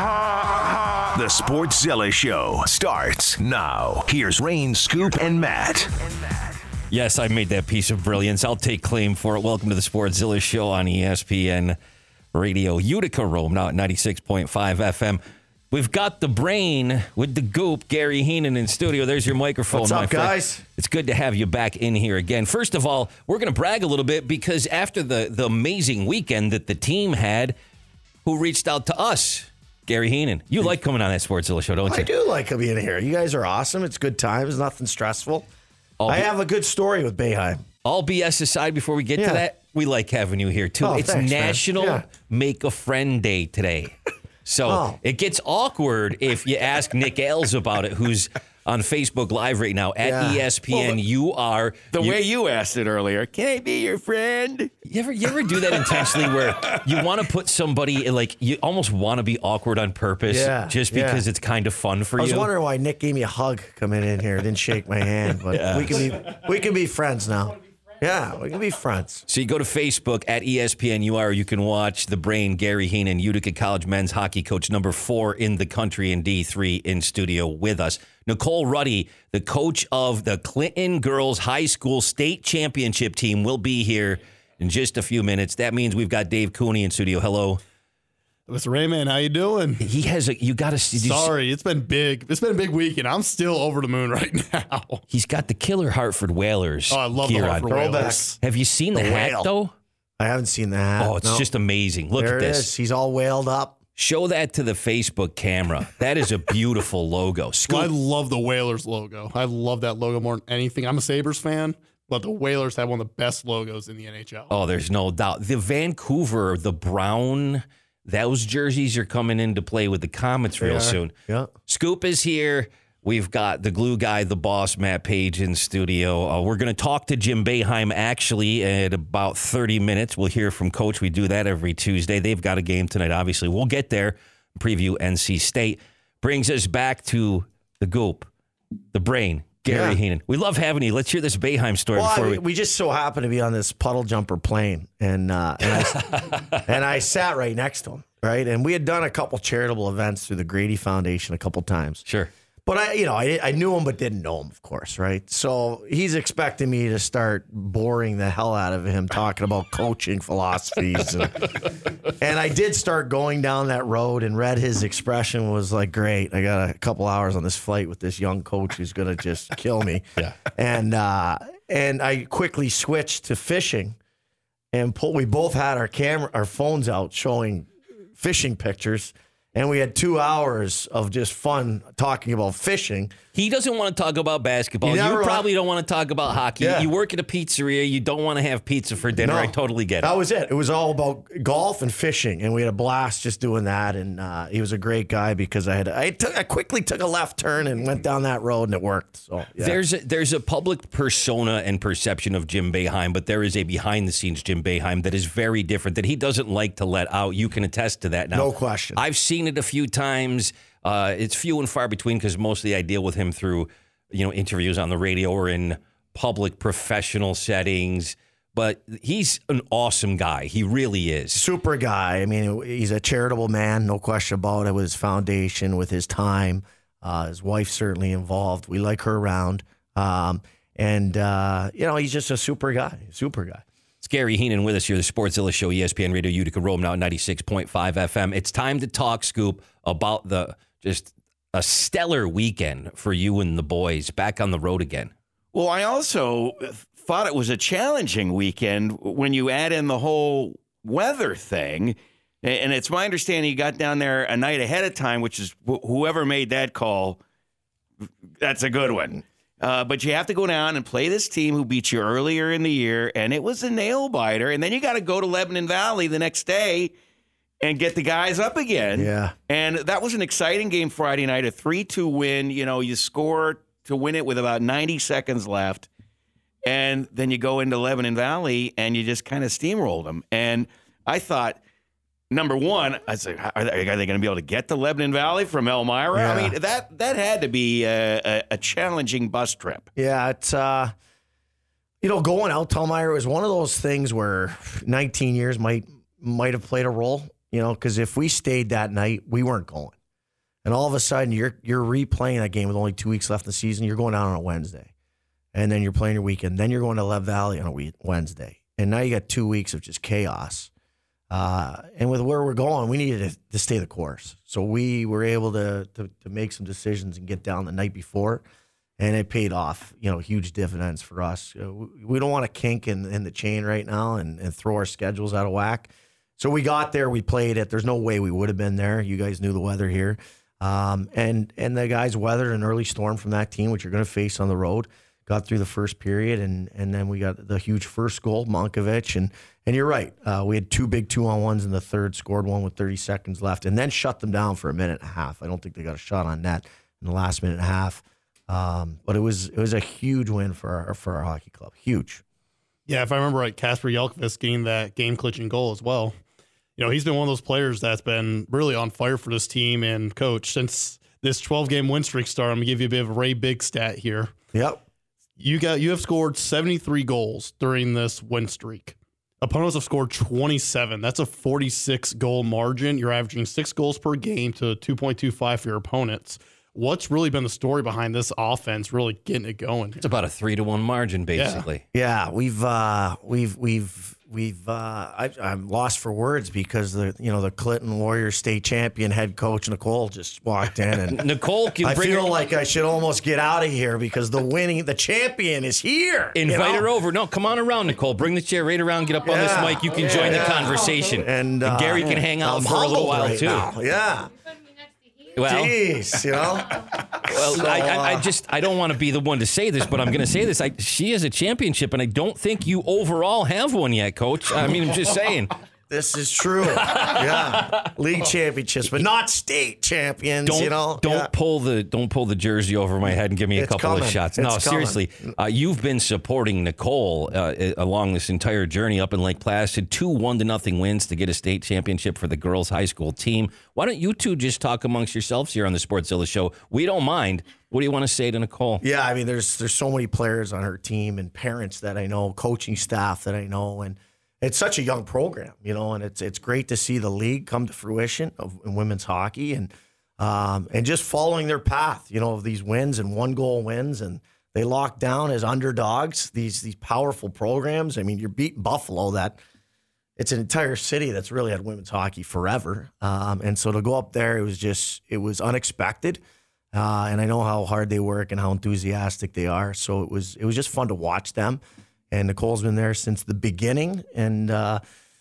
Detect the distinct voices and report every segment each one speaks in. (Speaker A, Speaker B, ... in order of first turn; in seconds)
Speaker A: 1.1-6.0
Speaker B: 6.9-11.8, 12.3-27.6, 28.2-32.1, 36.0-36.3, 37.8-43.9, 44.5-52.2, 54.9-62.5, 65.5-66.1, 69.3-87.6, 89.8-91.3, 95.1-97.7, 98.4-99.7, 101.0-102.7, 104.0-107.9, 114.5-121.1, 121.7-138.3, 138.9-142.4, 145.9-146.6, 183.3-190.1, 199.6-221.4, 234.0-245.1, 380.0-381.8, 391.1-392.3, 396.3-403.7, 405.4-405.8, 407.2-415.5, 416.9-417.9, 420.4-438.8
Speaker C: 19.7-20.6, 31.9-35.5, 36.1-37.6, 39.2-39.4, 40.8-42.0, 44.6-45.0, 50.0-50.5, 60.3-61.2, 62.2-69.2, 97.7-98.4, 98.9-99.5, 100.2-101.5, 102.2-103.8, 120.6-121.5, 139.7-140.0, 141.9-152.0, 152.7-174.0, 174.7-183.1, 184.8-185.4, 186.6-186.9, 189.2-199.8, 208.3-209.0, 221.3-233.6, 268.9-269.4, 286.1-286.6, 289.9-290.9, 292.0-299.9, 300.6-304.9, 305.5-310.7, 311.3-318.4, 319.0-352.2, 364.5-364.8, 381.9-391.2, 391.8-396.9, 399.2-404.3, 405.4-408.3, 415.9-421.3, 423.5-425.0, 438.8-459.4, 460.2-466.2, 466.7-471.6, 472.1-474.8
Speaker D: 51.9-54.7, 245.5-257.2, 258.4-266.9, 267.6-275.9, 276.6-281.6, 282.3-289.9
Speaker E: 88.5-89.8, 91.0-95.0, 96.9-98.2, 107.7-114.5, 352.9-356.1, 356.8-364.3, 365.4-380.1, 381.4-381.6